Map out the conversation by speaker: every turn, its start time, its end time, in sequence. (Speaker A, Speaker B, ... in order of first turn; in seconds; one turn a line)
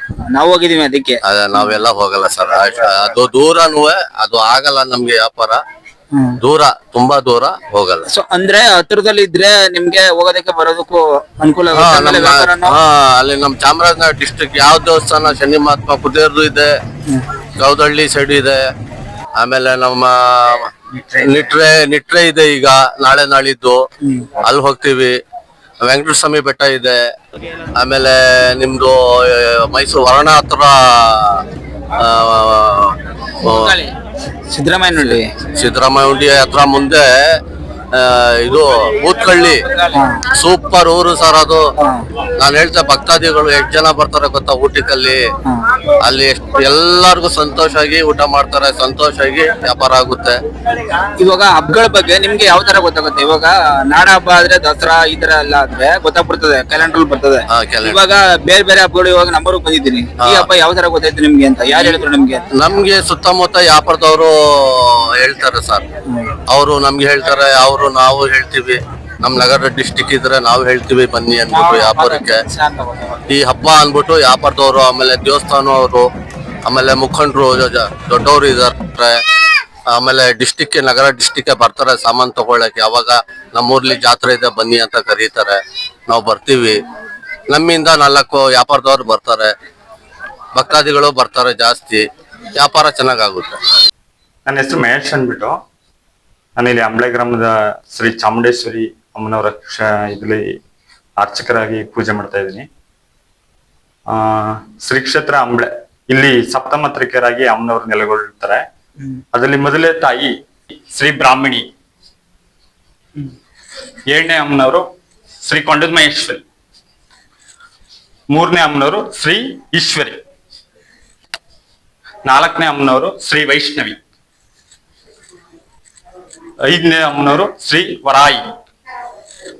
Speaker A: 0.3-1.2
Speaker B: 1.2-5.6
Speaker B: 6.4-8.0
Speaker A: 8.1-12.8
Speaker B: 11.7-16.8
Speaker B: 17.6-18.6
Speaker B: 19.4-23.8
Speaker A: 21.0-21.4
Speaker A: 24.0-24.3
Speaker B: 24.4-25.2
Speaker B: 25.8-27.0
Speaker B: 27.8-31.4
Speaker B: 31.9-33.7
Speaker A: 33.4-33.9
Speaker A: 34.5-35.3
Speaker B: 35.0-37.4
Speaker B: 37.9-39.6
Speaker A: 39.9-40.2
Speaker B: 40.3-41.7
Speaker A: 41.8-42.0
Speaker B: 42.4-45.2
Speaker B: 46.0-50.4
Speaker A: 51.2-62.5
Speaker B: 57.5-58.0
Speaker B: 60.2-60.5
Speaker B: 62.5-65.8
Speaker B: 66.5-72.4
Speaker A: 71.5-73.2
Speaker B: 73.3-76.1
Speaker B: 76.7-79.2
Speaker B: 79.9-86.8
Speaker B: 87.5-89.5
Speaker B: 90.5-92.0
Speaker B: 92.5-93.6
Speaker C: 94.5-95.6
Speaker C: 96.6-100.6
Speaker C: 101.2-102.7
Speaker C: 104.1-108.6
Speaker C: 109.3-110.3
Speaker C: 110.9-111.7
Speaker C: 114.1-114.8
Speaker C: 115.4-116.4
Speaker C: 118.3-120.2
Speaker C: 122.2-124.0
Speaker C: 126.6-128.5